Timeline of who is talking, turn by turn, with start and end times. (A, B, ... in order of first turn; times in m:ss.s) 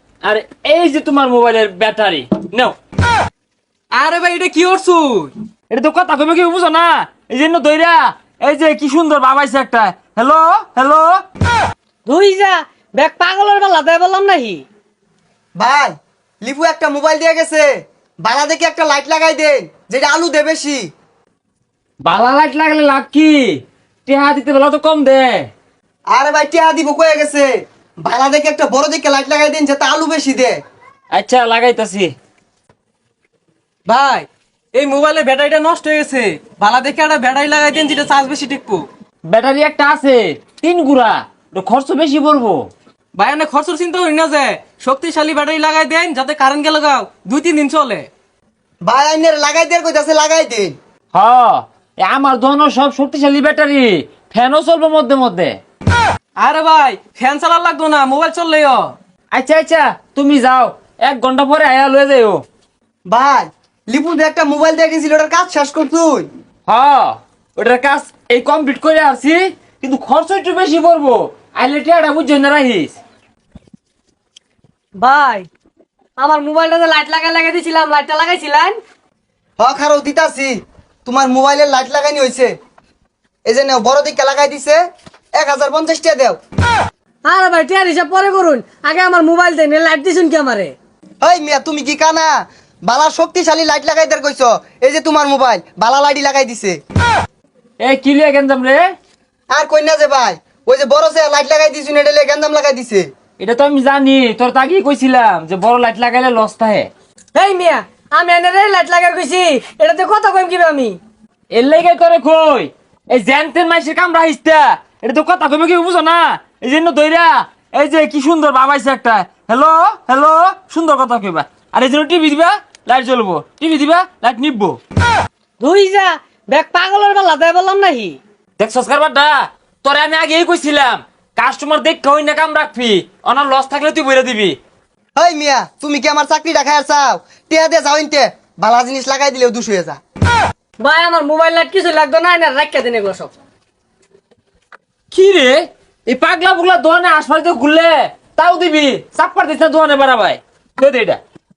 0:00.2-0:02.8 A
0:03.9-0:05.3 B
0:05.7-0:11.2 A
0:12.0-0:14.6 C
0:15.6-0:20.9 D
0:22.0-0:25.5 A
0:26.1-0:30.6 D
0:31.1-0:32.1 A
0:33.9-0:38.9 B
0:39.3-0:42.7 A
0:43.1-0:48.1 B
0:48.8-0:50.8 D
0:51.1-0:55.6 A
0:56.4-0:58.9 B
0:59.3-1:02.4 A
1:03.1-1:06.3 D
1:06.7-1:13.0 A
1:15.0-1:15.5 C
1:16.2-1:18.8 C
1:19.6-1:22.5 D
1:23.4-1:24.8 D
1:25.3-1:26.4 D
1:27.2-1:30.7 C
1:31.2-1:36.8 D
1:37.8-1:38.9 A
1:39.5-1:43.1 D
1:43.4-1:46.9 A
1:47.3-1:51.0 C
1:51.5-2:04.8 A
2:05.6-2:08.2 C
2:08.6-2:14.6 A
2:15.2-2:20.0 D
2:20.8-2:23.3 C
2:25.1-2:31.2 A